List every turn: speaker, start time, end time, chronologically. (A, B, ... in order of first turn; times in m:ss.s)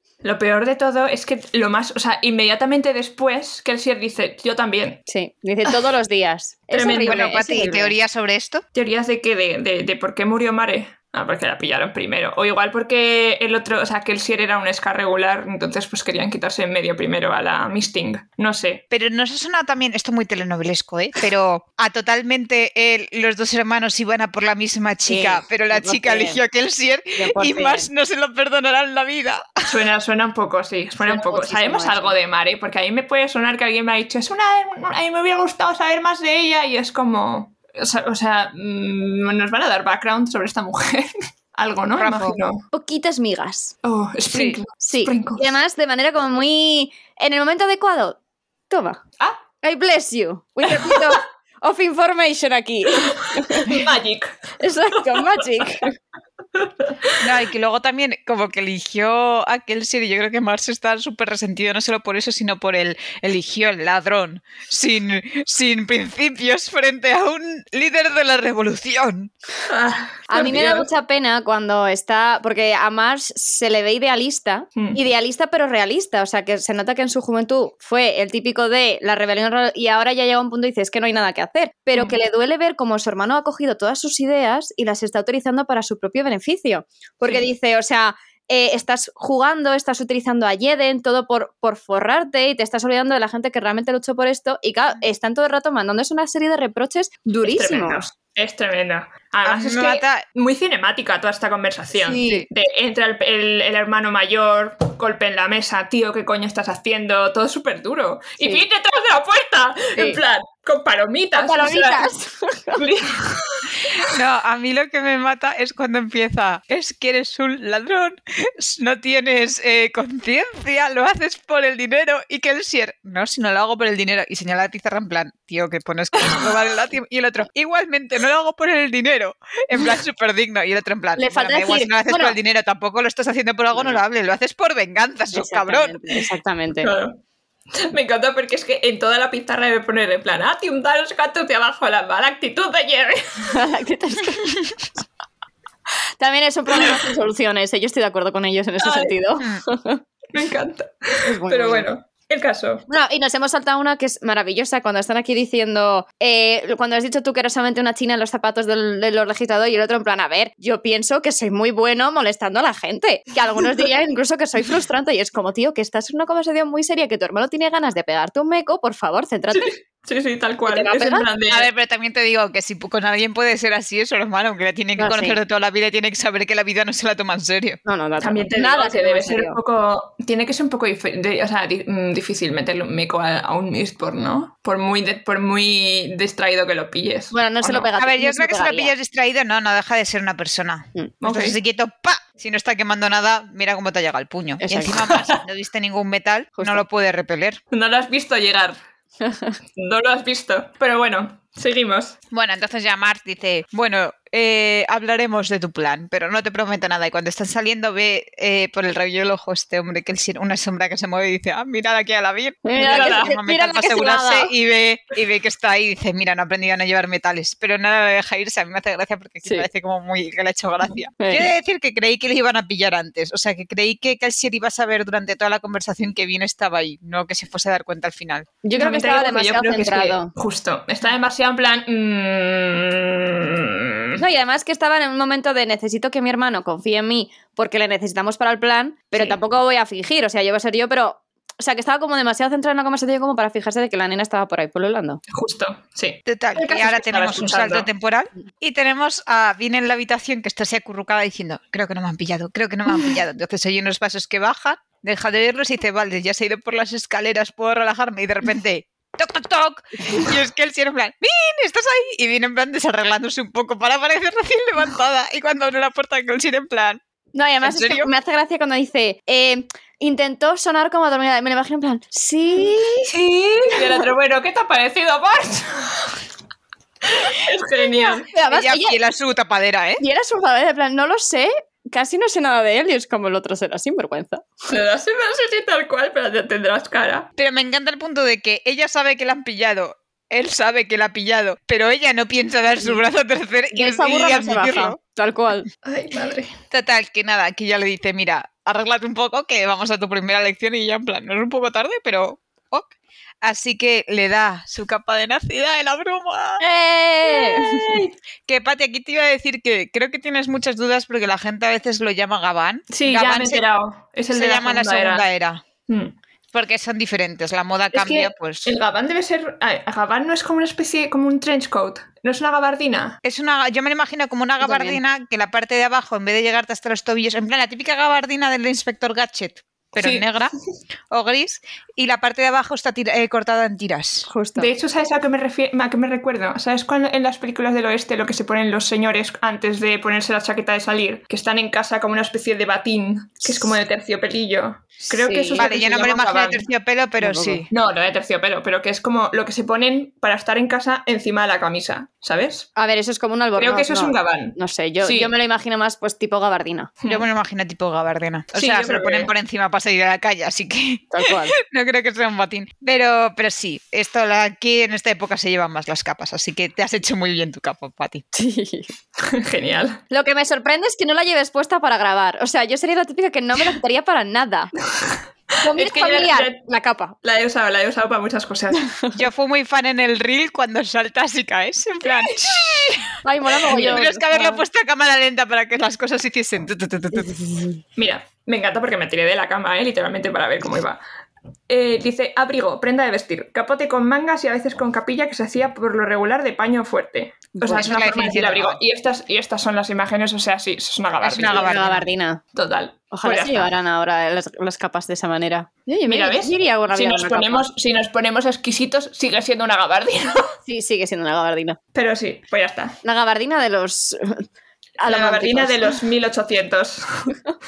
0:00.2-0:05.0 A
0:05.1-0:07.9 B
0:06.7-0:07.2 A
0:07.1-0:08.6 C
0:08.7-0:18.8 A
0:18.9-0:29.7 C
0:25.1-0:26.4 B
0:27.2-0:27.9 B
0:29.7-0:42.6 A
0:31.0-0:32.1 B
0:42.0-0:42.4 C
0:42.7-0:43.7 B
0:43.8-0:45.6 A
0:44.3-0:44.6 C
0:44.8-0:48.2 B
0:48.7-0:49.0 B
0:49.6-0:53.8 B
0:50.7-0:51.2 A
0:52.9-0:55.8 A
0:54.6-0:56.0 B
0:56.6-0:57.2 A
0:57.2-1:09.3 C
1:09.7-1:10.9 A
1:10.3-1:38.0 B
1:37.4-1:52.1 A
1:39.4-1:40.2 C
1:42.0-1:42.5 C
1:50.0-1:50.2 B
1:51.4-1:52.8 B
1:52.8-1:53.9 A
1:53.9-2:16.0 C
2:11.2-2:12.4 B
2:15.3-2:16.9 B
2:16.8-2:17.2 A
2:17.7-2:23.6 A
2:23.4-2:24.6 B
2:26.2-2:30.0 B
2:26.8-2:27.0 A
2:28.8-2:29.2 A
2:30.3-2:32.8 A
2:31.2-2:31.9 B
2:32.9-2:49.7 B
2:49.5-2:51.7 A
2:50.7-2:51.3 B
2:51.5-2:57.8 C
2:55.0-2:55.4 B
2:57.8-2:59.6 B
2:58.2-3:07.3 A
3:07.3-3:08.9 B
3:07.6-3:17.6 C
3:11.2-3:11.6 A
3:14.6-3:15.0 B
3:15.1-3:15.4 A
3:16.6-3:16.8 B
3:17.7-3:18.8 A
3:19.2-3:19.6 B
3:19.8-3:22.2 A
3:22.3-3:48.5 C
3:32.6-3:34.5 B
3:32.8-3:33.3 A
3:41.2-3:41.5 B
3:48.6-3:50.3 B
3:48.8-3:54.2 A
3:54.2-4:05.2 B
4:05.3-4:07.9 A
4:06.3-4:27.0 C
4:27.3-4:33.1 B
4:27.6-4:28.1 C
4:33.1-4:36.2 A
4:33.7-4:34.1 B
4:37.0-4:38.3 A
4:38.0-4:39.0 B
4:38.5-4:40.0 C
4:40.0-4:44.7 B
4:44.7-4:47.3 A
4:47.4-4:55.0 C
4:53.7-4:55.7 B
4:55.8-4:56.5 A
4:56.7-5:02.9 C
5:03.4-5:06.6 C
5:06.6-5:08.0 B
5:07.3-5:08.1 A
5:08.5-5:13.6 C
5:12.9-5:15.2 A
5:14.3-5:15.6 C
5:15.9-5:16.1 A
5:16.5-5:18.7 C
5:17.9-5:23.2 A
5:23.2-5:30.5 C
5:24.6-5:25.0 B
5:30.0-5:30.3 A
5:31.1-5:34.3 C
5:34.3-5:34.7 B
5:34.6-5:46.6 A
5:45.1-5:45.7 B
5:45.6-5:47.7 C
5:47.2-5:47.6 B
5:47.7-5:52.7 A
5:52.8-5:56.9 B
5:53.6-5:55.3 A
5:57.0-5:57.3 A
5:57.1-6:08.2 C
5:58.6-5:59.3 A
6:01.1-6:01.5 B
6:08.3-6:08.9 B
6:09.2-6:10.0 A
6:10.1-6:14.7 B
6:15.0-6:16.6 A
6:15.6-6:17.2 B
6:17.2-6:18.9 A
6:19.2-6:27.4 C
6:22.1-6:22.4 A
6:23.2-6:24.6 B
6:27.2-6:27.8 B
6:28.0-6:31.0 A
6:31.7-6:42.0 A
6:37.6-6:37.9 B
6:37.7-6:38.8 C
6:41.2-6:42.0 C
6:41.4-6:42.4 B
6:42.6-6:43.7 A
6:43.1-6:47.7 B
6:46.1-6:50.5 A
6:50.7-6:51.8 B
6:52.0-6:53.0 A
6:53.0-6:54.4 B
6:55.0-6:56.0 B
6:55.1-6:57.4 A